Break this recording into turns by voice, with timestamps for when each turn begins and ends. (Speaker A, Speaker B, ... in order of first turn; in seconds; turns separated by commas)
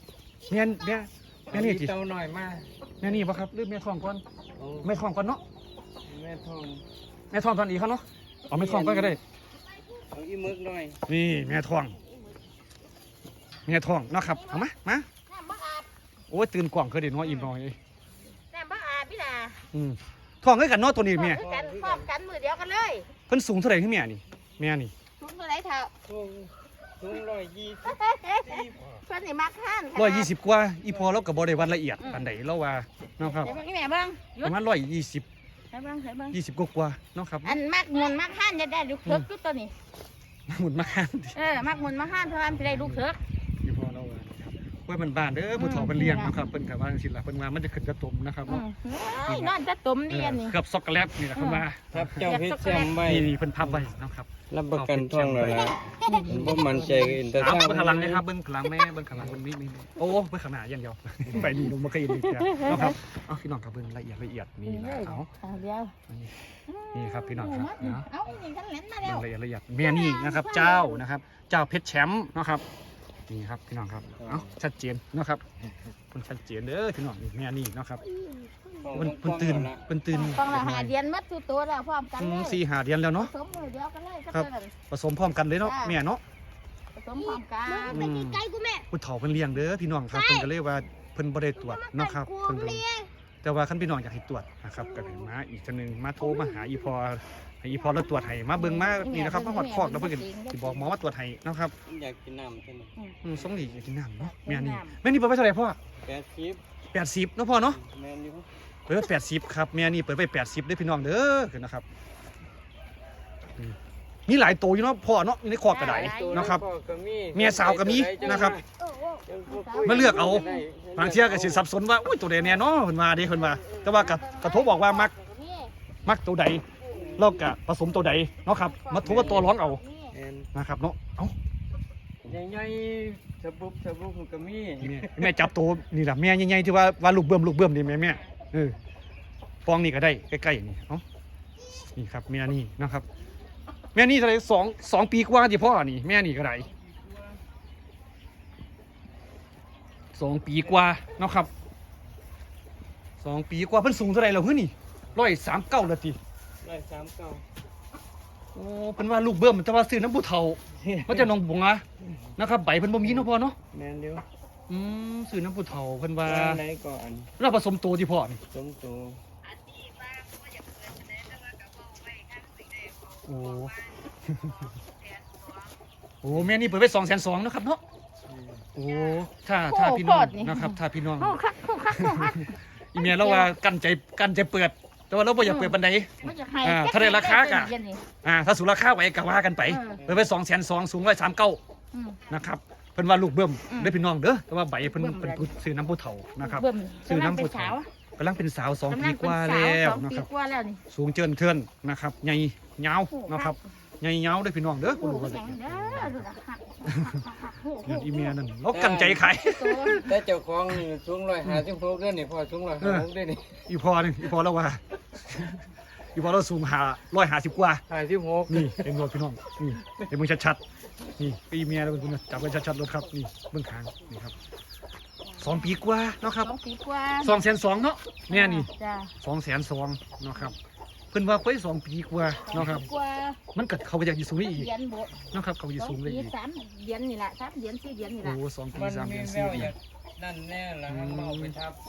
Speaker A: 0.5-1.9, Speaker B: 1.5-3.2, Speaker A: 3.0-4.2, Speaker B: 4.6-4.9, Speaker A: 4.8-5.4, Speaker B: 6.1-6.8, Speaker A: 7.3-9.2, Speaker B: 8.5-9.2, Speaker B: 10.1-11.0, Speaker A: 11.1-12.0, Speaker A: 13.7-15.1, Speaker C: 14.3-14.7, Speaker C: 15.2-15.9, Speaker A: 16.3-17.8, Speaker C: 17.2-17.5, Speaker C: 18.5-19.6, Speaker A: 19.7-21.4, Speaker C: 21.1-23.1, Speaker B: 21.3-22.1, Speaker A: 23.3-24.9, Speaker C: 25.2-25.9, Speaker B: 26.1-29.0, Speaker C: 27.9-30.3, Speaker A: 30.0-33.5, Speaker B: 30.9-31.3, Speaker C: 32.0-32.3, Speaker C: 33.4-34.6, Speaker A: 34.4-35.2, Speaker C: 35.7-36.4, Speaker A: 36.3-37.6, Speaker C: 37.4-39.7, Speaker A: 40.5-41.5, Speaker C: 41.4-43.2, Speaker A: 42.5-43.0, Speaker A: 43.6-48.6, Speaker C: 45.6-46.4, Speaker C: 48.5-50.6, Speaker A: 49.2-49.6, Speaker A: 50.1-52.3, Speaker C: 51.4-51.6, Speaker B: 51.9-53.9, Speaker C: 52.2-53.0, Speaker A: 52.9-65.3, Speaker B: 54.5-58.2, Speaker C: 56.0-57.2, Speaker B: 61.3-61.7, Speaker C: 62.2-63.0, Speaker C: 64.7-66.0, Speaker A: 66.1-66.3, Speaker C: 66.7-69.2, Speaker A: 66.9-68.1, Speaker A: 69.0-72.6, Speaker C: 69.8-71.0, Speaker A: 73.3-75.4, Speaker B: 74.2-74.5, Speaker A: 76.1-78.0, Speaker C: 78.2-79.1, Speaker B: 78.8-79.8, Speaker A: 78.9-80.9, Speaker C: 80.1-82.6, Speaker A: 82.2-83.3, Speaker C: 83.2-84.7, Speaker A: 84.3-86.2, Speaker C: 85.6-86.0, Speaker C: 87.0-88.8, Speaker A: 87.9-92.8, Speaker C: 90.1-90.5, Speaker C: 91.6-93.1, Speaker A: 93.4-101.7, Speaker C: 98.4-101.0, Speaker B: 101.9-103.9, Speaker A: 103.2-105.8, Speaker C: 104.5-105.0, Speaker B: 106.0-106.6, Speaker A: 106.9-107.8, Speaker B: 107.7-108.5, Speaker A: 108.9-111.8, Speaker A: 113.6-116.6, Speaker C: 115.7-116.4, Speaker B: 115.8-118.6, Speaker A: 117.3-118.6, Speaker C: 118.2-120.6, Speaker B: 119.2-121.6, Speaker A: 119.8-125.1, Speaker C: 123.3-125.7, Speaker A: 126.0-126.6, Speaker C: 126.8-127.5, Speaker B: 126.9-127.3, Speaker A: 127.2-129.8, Speaker C: 128.6-130.1, Speaker B: 128.9-129.5, Speaker B: 130.1-130.5, Speaker A: 130.5-131.3, Speaker B: 132.2-135.5, Speaker A: 134.8-138.8, Speaker A: 139.6-141.0, Speaker A: 141.9-143.1, Speaker A: 143.9-146.7, Speaker B: 146.7-147.4, Speaker A: 150.1-151.5, Speaker A: 153.2-156.2, Speaker B: 156.6-157.4, Speaker A: 158.5-161.8, Speaker B: 160.7-161.3, Speaker A: 162.4-163.6, Speaker B: 163.1-164.2, Speaker A: 164.7-166.6, Speaker B: 166.2-167.3, Speaker A: 167.4-168.4, Speaker B: 168.5-169.2, Speaker A: 173.2-174.7, Speaker A: 176.2-177.8, Speaker B: 178.3-178.7, Speaker A: 178.8-181.4, Speaker C: 179.7-183.5, Speaker A: 181.9-191.6, Speaker C: 185.4-188.0, Speaker C: 189.6-190.0, Speaker B: 190.0-190.2, Speaker C: 191.9-192.2, Speaker A: 192.3-200.3, Speaker C: 193.7-194.0, Speaker C: 194.8-195.5, Speaker C: 196.4-197.9, Speaker C: 198.9-200.8, Speaker A: 200.9-206.2, Speaker C: 203.1-203.6, Speaker C: 204.8-208.3, Speaker A: 206.9-207.1, Speaker A: 207.8-210.2, Speaker B: 208.7-209.3, Speaker C: 209.4-210.1, Speaker B: 210.0-213.7, Speaker A: 212.8-213.1, Speaker A: 213.7-215.6, Speaker A: 216.1-217.8, Speaker B: 217.9-218.9, Speaker A: 218.5-220.6, Speaker A: 221.2-224.3, Speaker C: 225.3-225.7, Speaker A: 225.4-226.5, Speaker C: 226.4-227.4, Speaker A: 227.2-230.6, Speaker C: 228.3-229.1, Speaker A: 231.1-232.9, Speaker C: 232.5-233.4, Speaker A: 233.6-234.7, Speaker C: 234.4-235.1, Speaker A: 235.3-236.3, Speaker C: 235.8-238.4, Speaker A: 238.2-239.8, Speaker B: 238.7-241.8, Speaker A: 240.9-241.6